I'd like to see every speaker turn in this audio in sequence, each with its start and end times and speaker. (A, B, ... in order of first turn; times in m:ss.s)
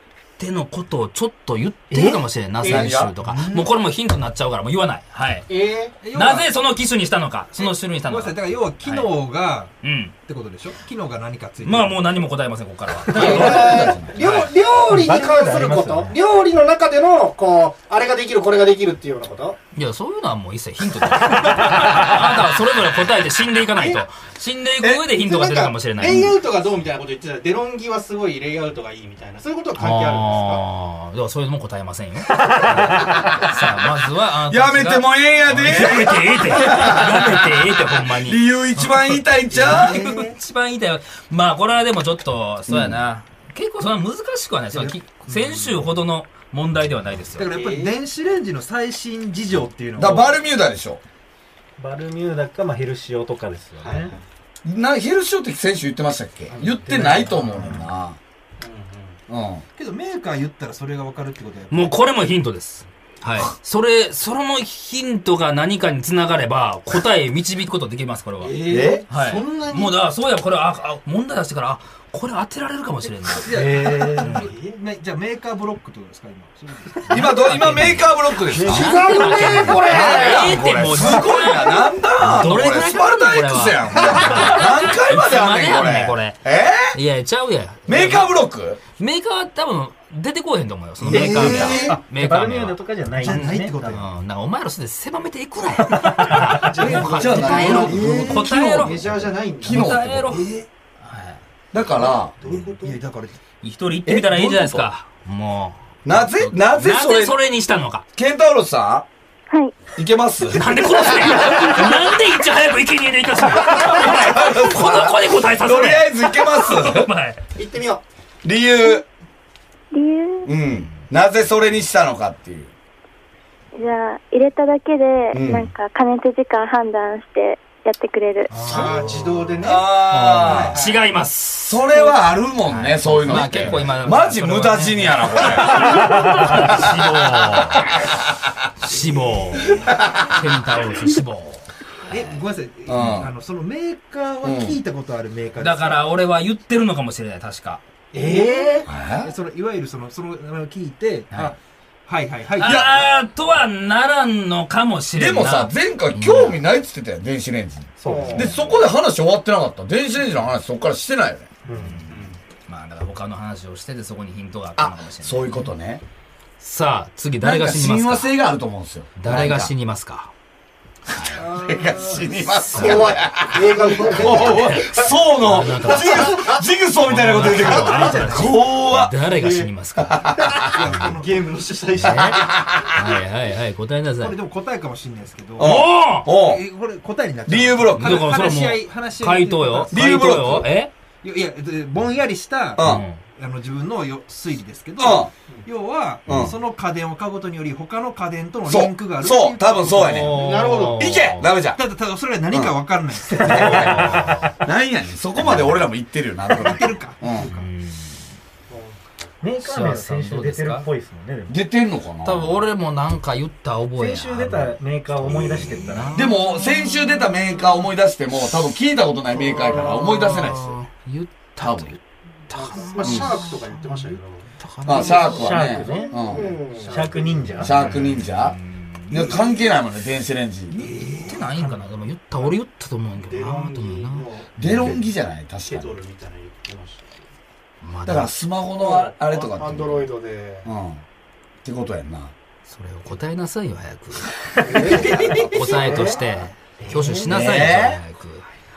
0:00.4-0:05.5 A
0:01.9-0:03.2 B
0:02.6-0:02.9 C
0:03.2-0:03.7 D
0:05.5-0:05.9 C
0:06.0-0:06.5 D
0:06.1-0:09.1 A
0:07.6-0:09.7 D
0:09.8-0:10.1 A
0:10.2-0:12.2 D
0:11.6-0:14.5 A
0:13.1-0:17.0 C
0:13.1-0:14.3 B
0:14.9-0:16.2 E
0:17.6-0:19.6 C
0:19.8-0:26.3 A
0:23.8-0:24.0 C
0:25.2-0:30.6 C
0:29.8-0:47.5 A
0:32.8-0:33.7 B
0:34.5-0:40.1 B
0:39.5-0:40.4 D
0:42.7-0:43.0 B
0:44.7-0:45.9 D
0:47.4-0:50.4 D
0:47.5-0:48.0 C
0:50.0-0:51.0 B
0:51.8-0:54.1 E
0:53.8-0:54.2 C
0:54.6-0:58.2 B
0:56.5-0:57.2 C
0:56.8-0:57.8 D
0:58.6-0:59.2 C
0:59.3-0:59.6 B
0:59.8-1:01.9 D
1:01.7-1:13.5 A
1:08.4-1:10.0 D
1:08.4-1:09.5 C
1:08.7-1:09.0 B
1:13.2-1:18.1 D
1:13.5-1:14.4 E
1:14.2-1:14.5 A
1:14.3-1:14.8 C
1:17.1-1:19.0 B
1:17.5-1:28.3 A
1:18.5-1:21.2 C
1:19.8-1:27.0 B
1:24.0-1:24.5 C
1:27.9-1:28.8 B
1:29.0-1:39.0 A
1:31.0-1:32.0 B
1:31.1-1:32.0 D
1:31.4-1:33.8 E
1:33.1-1:34.1 D
1:36.0-1:36.4 E
1:36.5-1:38.7 D
1:36.6-1:40.0 C
1:36.8-1:40.4 B
1:39.6-1:40.5 A
1:40.2-1:40.7 D
1:41.0-1:41.4 A
1:41.7-1:42.3 B
1:42.0-1:43.0 C
1:42.4-1:43.4 D
1:43.6-1:48.0 A
1:44.1-1:44.9 B
1:46.0-1:47.4 B
1:48.2-1:49.1 B
1:49.5-1:49.8 F
1:50.0-1:51.9 B
1:50.5-1:57.4 A
1:53.6-1:57.1 B
1:57.6-1:58.0 C
1:58.4-1:59.0 B
1:59.9-2:00.5 F
2:00.4-2:02.7 B
2:03.8-2:08.5 F
2:05.3-2:05.7 B
2:08.5-2:09.6 D
2:08.6-2:10.9 C
2:09.0-2:09.3 A
2:09.6-2:10.8 B
2:10.4-2:18.0 A
2:10.4-2:10.7 D
2:11.6-2:18.2 B
2:18.8-2:21.7 A
2:19.8-2:20.3 B
2:22.1-2:26.1 D
2:22.9-2:23.3 B
2:24.4-2:24.8 B
2:25.6-2:27.8 A
2:28.1-2:28.9 C
2:28.2-2:33.0 D
2:28.8-2:29.3 B
2:32.6-2:36.6 A
2:32.6-2:33.0 B
2:35.2-2:41.5 B
2:38.0-2:38.6 E
2:38.0-2:38.7 C
2:41.7-2:42.0 E
2:41.8-2:45.6 A
2:42.0-2:42.4 C
2:44.8-2:46.0 B
2:46.6-2:48.4 A
2:47.4-2:49.7 B
2:49.2-2:50.3 A
2:51.1-2:51.5 A
2:51.2-2:59.1 B
2:51.4-2:54.8 C
2:52.6-2:53.2 A
2:54.4-3:00.4 A
2:55.7-2:56.6 C
2:57.5-2:58.6 C
2:59.2-2:59.7 C
3:00.0-3:00.7 B
3:00.4-3:02.6 C
3:00.6-3:01.6 D
3:02.0-3:04.4 A
3:02.4-3:03.0 B
3:04.2-3:10.4 D
3:05.6-3:06.6 B
3:05.6-3:06.3 A
3:07.5-3:08.3 B
3:08.0-3:10.9 A
3:09.9-3:10.7 B
3:11.2-3:12.8 D
3:12.8-3:13.0 B
3:12.8-3:13.2 A
3:13.4-3:20.6 D
3:15.0-3:15.3 B
3:16.3-3:16.6 B
3:18.7-3:21.8 B
3:19.9-3:21.5 A
3:20.3-3:21.2 C
3:21.7-3:24.2 D
3:22.5-3:22.8 B
3:23.3-3:27.5 B
3:23.4-3:24.5 A
3:25.4-3:25.8 A
3:26.5-3:27.7 D
3:27.5-3:28.2 A
3:28.7-3:29.0 C
3:29.4-3:31.6 E
3:29.6-3:30.9 A
3:31.5-3:32.6 B
3:32.2-3:37.3 A
3:34.0-3:36.2 E
3:36.1-3:40.7 B
3:39.4-3:39.9 C
3:39.6-3:45.5 A
3:41.6-3:41.9 B
3:42.5-3:44.5 C
3:43.0-3:43.3 B
3:44.8-3:46.5 B
3:45.0-3:47.8 E
3:45.5-3:48.0 C
3:47.6-3:48.6 B
3:47.6-3:49.4 A
3:49.1-3:50.9 B
3:50.7-3:51.9 D
3:51.3-3:55.0 A
3:53.2-3:54.9 C
3:54.6-3:56.0 B
3:55.7-3:57.3 C
3:57.8-3:58.3 A
3:58.0-4:00.1 B
3:58.8-4:00.7 C
4:00.6-4:01.0 B
4:01.6-4:02.3 B
4:02.7-4:08.5 A
4:04.6-4:06.2 C
4:05.1-4:05.4 B
4:05.1-4:05.4 D
4:06.8-4:07.3 C
4:07.2-4:08.0 B